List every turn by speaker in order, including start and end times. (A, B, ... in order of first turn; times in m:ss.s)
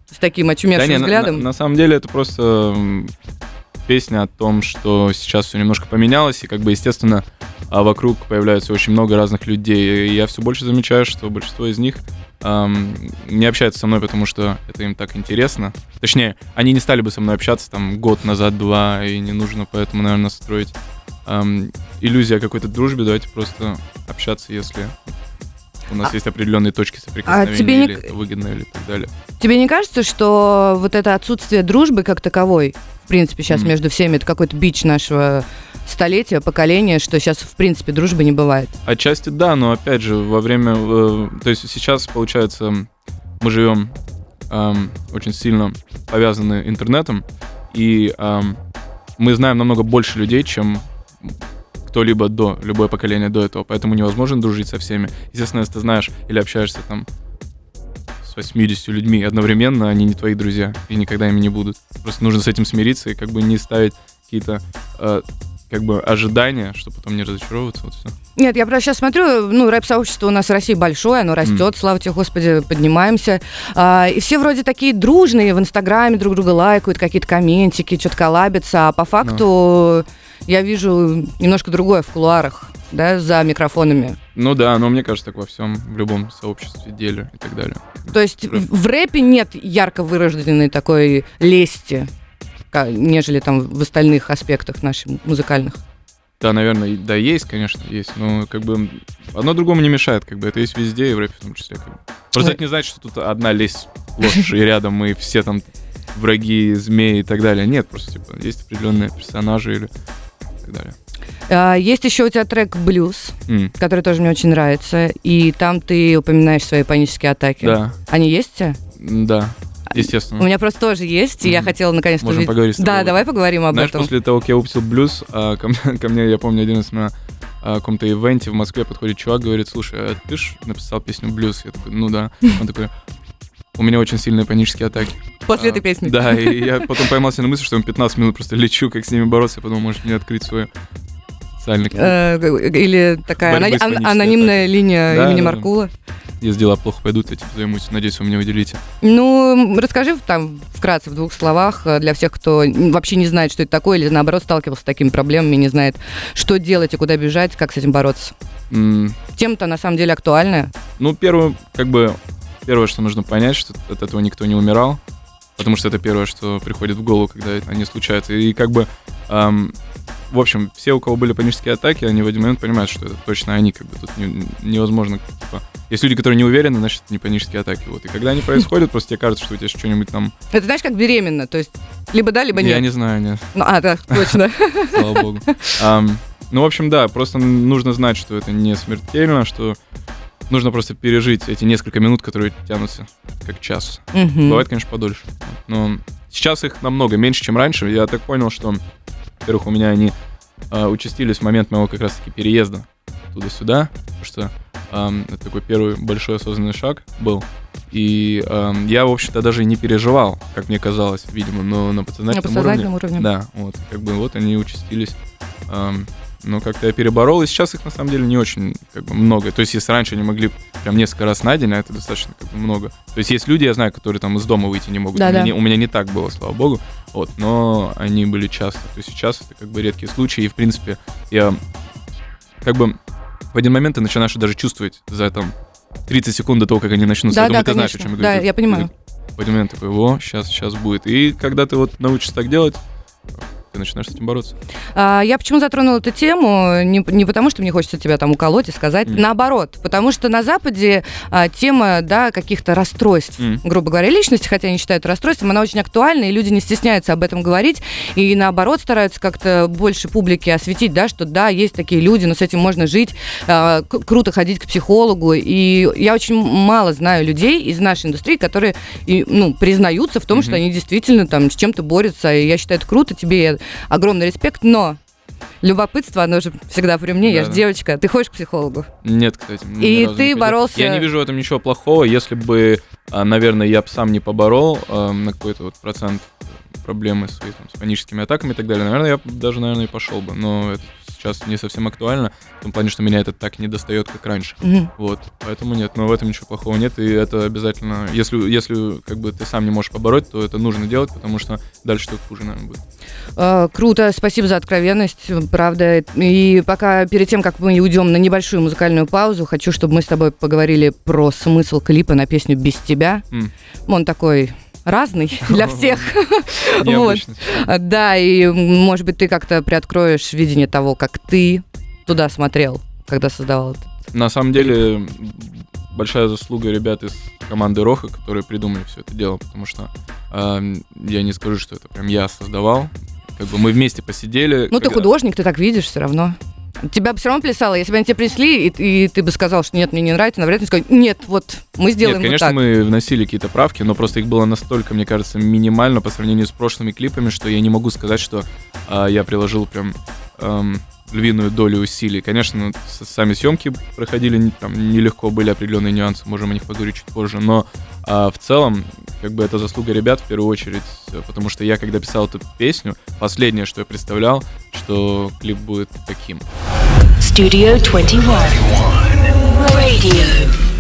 0:00.1-0:01.5 A
0:00.8-0:03.1 B
0:03.9-0:20.7 B
0:21.3-0:25.1 B
0:25.9-0:29.1 B
0:27.3-0:28.1 A
0:29.4-0:38.7 A
0:33.5-0:33.7 B
0:38.8-0:42.9 B
0:43.4-0:43.9 B
0:44.5-0:48.6 B
0:49.2-0:51.3 B
0:51.8-0:57.1 B
0:58.2-1:08.1 B
1:08.4-1:24.2 A
1:24.4-1:28.6 B
1:28.1-1:32.1 A
1:32.7-1:35.8 A
1:36.4-1:49.9 B
1:50.6-1:51.0 B
1:51.5-1:58.8 A
1:53.5-1:53.7 B
1:57.6-1:58.0 B
1:59.0-2:00.5 B
1:59.9-2:04.1 A
2:01.4-2:12.9 B
2:13.8-2:20.7 B
2:15.5-2:16.9 A
2:21.6-2:22.2 B
2:21.9-2:25.9 A
2:23.3-2:25.7 B
2:26.4-2:28.8 B
2:29.0-2:38.3 A
2:38.7-2:39.2 B
2:39.4-2:40.7 A
2:41.0-2:45.0 B
2:45.6-2:49.8 B
2:50.3-3:00.3 B
3:00.5-3:02.9 A
3:02.6-3:03.5 B
3:03.5-3:05.7 A
3:04.1-3:04.4 B
3:04.9-3:09.8 B
3:10.5-3:18.8 B
3:14.1-3:14.6 A
3:19.4-3:20.2 B
3:20.7-3:35.2 B
3:32.3-3:33.3 A
3:35.7-3:51.6 B
3:45.2-3:45.5 A
3:52.6-3:53.0 B
3:53.5-3:55.5 B
3:56.1-4:02.8 B
3:57.3-3:58.9 A
4:03.4-4:04.6 B
4:05.0-4:35.0 A
4:30.3-4:30.6 B
4:35.6-4:38.9 A
4:37.2-4:37.6 B
4:39.0-5:02.8 B
4:39.8-4:41.1 A
4:54.6-4:54.9 A
5:03.4-5:13.3 A
5:13.9-5:23.9 A
5:15.5-5:16.1 B
5:16.8-5:17.6 B
5:24.1-5:35.1 B
5:34.7-5:42.6 A
5:42.0-6:06.4 B
6:07.2-6:08.8 C
6:09.3-6:10.5 C